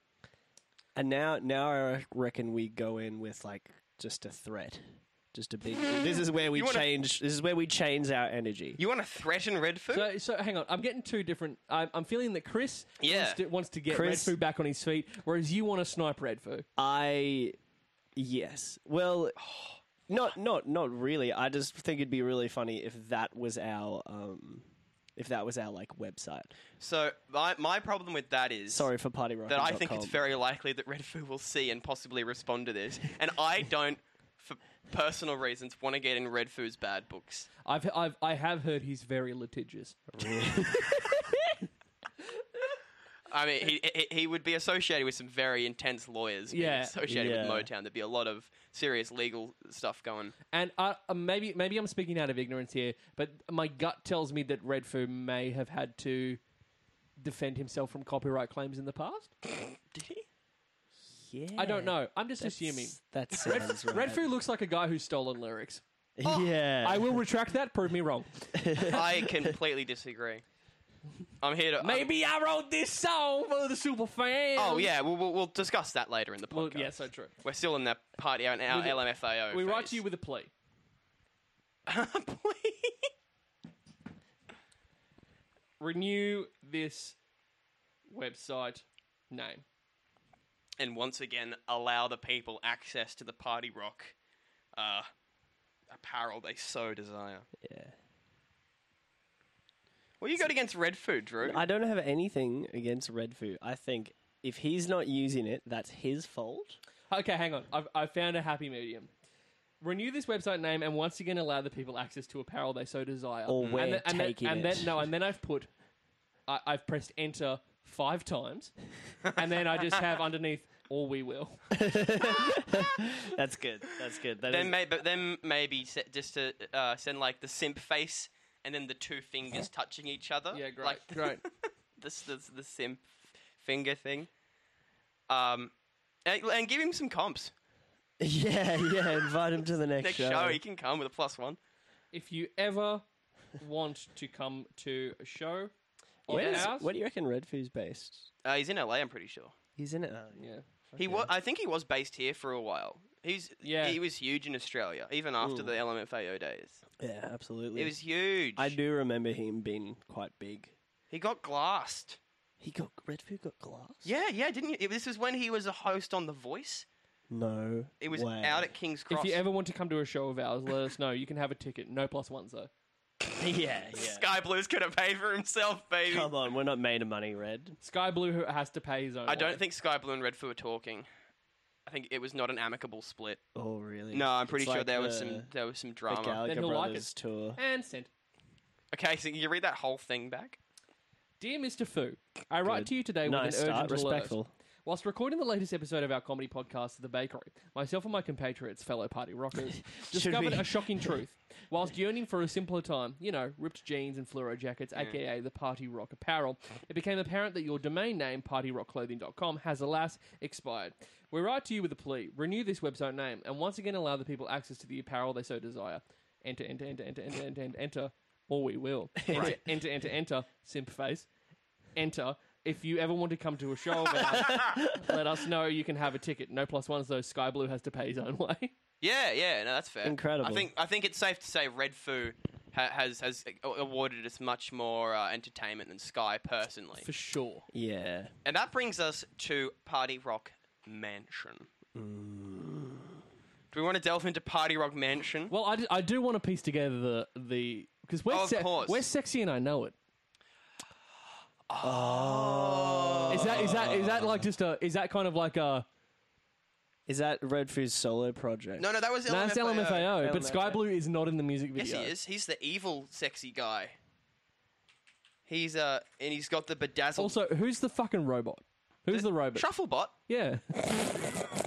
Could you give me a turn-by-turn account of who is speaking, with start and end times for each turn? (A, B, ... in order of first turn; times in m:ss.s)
0:00.9-0:08.8 A
0:06.5-0:06.9 B
0:08.8-0:10.1 B
0:09.9-0:16.6 C
0:13.0-0:13.4 B
0:13.9-0:14.4 A
0:16.8-0:17.6 A
0:18.2-0:19.4 A
0:19.4-0:19.8 B
0:20.1-0:24.6 A
0:25.2-0:26.5 A
0:26.8-0:28.9 B
0:28.7-0:30.2 A
0:29.5-0:37.5 B
0:37.6-0:40.0 C
0:40.2-0:41.5 A
0:43.3-0:50.4 B
0:46.5-0:46.9 C
0:47.0-0:47.7 A
0:50.5-0:56.4 C
0:57.2-0:59.3 C
0:59.6-1:00.2 B
1:01.1-1:04.3 A
1:01.6-1:05.8 C
1:06.2-1:07.2 A
1:06.2-1:06.5 B
1:06.8-1:08.5 C
1:08.5-1:09.5 A
1:08.9-1:10.4 B
1:11.4-1:12.1 B
1:11.8-1:14.9 C
1:14.6-1:20.0 B
1:16.5-1:17.3 C
1:18.7-1:20.5 C
1:21.9-1:23.1 B
1:25.8-1:27.2 C
1:28.1-1:29.6 C
1:30.8-1:34.1 B
1:34.7-1:35.1 B
1:35.9-1:37.4 B
1:37.6-1:37.9 A
1:40.2-1:41.6 B
1:41.4-1:46.8 A
1:47.1-1:49.1 C
1:49.8-1:55.7 C
1:53.5-1:55.0 A
1:56.5-1:58.7 C
1:59.3-2:01.7 C
2:01.7-2:04.8 A
2:04.5-2:13.0 B
2:10.5-2:11.4 C
2:13.6-2:14.3 B
2:15.3-2:15.7 B
2:16.2-2:17.5 B
2:18.2-2:20.6 A
2:20.0-2:21.6 B
2:22.1-2:23.0 C
2:23.6-2:25.7 C
2:26.2-2:26.9 C
2:26.3-2:28.3 A
2:26.3-2:26.7 B
2:28.4-2:29.5 B
2:29.8-2:31.3 A
2:30.4-2:30.6 C
2:31.0-2:36.8 B
2:33.6-2:34.0 C
2:35.4-2:35.7 A
2:37.0-2:37.9 A
2:37.8-2:38.8 B
2:38.6-2:40.7 A
2:41.1-2:42.2 B
2:42.6-2:44.1 A
2:44.0-2:46.8 B
2:47.3-2:48.7 A
2:48.0-2:49.4 B
2:49.1-2:52.7 C
2:53.4-2:54.3 A
2:53.9-2:56.3 B
2:56.1-2:57.8 A
2:57.8-2:59.6 C
2:59.3-3:01.1 B
3:01.8-3:03.4 B
3:03.5-3:05.5 A
3:04.1-3:06.4 B
3:06.1-3:07.6 A
3:06.4-3:08.1 C
3:08.9-3:10.6 B
3:11.4-3:41.3 C
3:12.6-3:14.5 A
3:20.0-3:21.2 A
3:39.2-3:39.6 A
3:39.3-3:39.6 B
3:42.0-3:48.7 C
3:44.5-3:45.2 A
3:49.0-3:57.0 B
3:50.0-3:50.7 A
3:57.0-3:57.6 C
3:57.7-3:58.3 A
3:58.4-4:01.7 B
4:01.9-4:03.2 A
4:03.7-4:05.5 B
4:05.5-4:09.9 C
4:08.3-4:09.0 B
4:11.7-4:13.9 B
4:11.8-4:14.5 A
4:13.3-4:15.8 C
4:17.1-4:18.9 A
4:18.8-4:20.1 B
4:19.3-4:22.1 C
4:20.1-4:20.8 A
4:21.8-4:23.9 B
4:25.5-4:27.3 B
4:27.2-4:29.6 C
4:29.1-4:30.1 B
4:30.3-4:31.4 C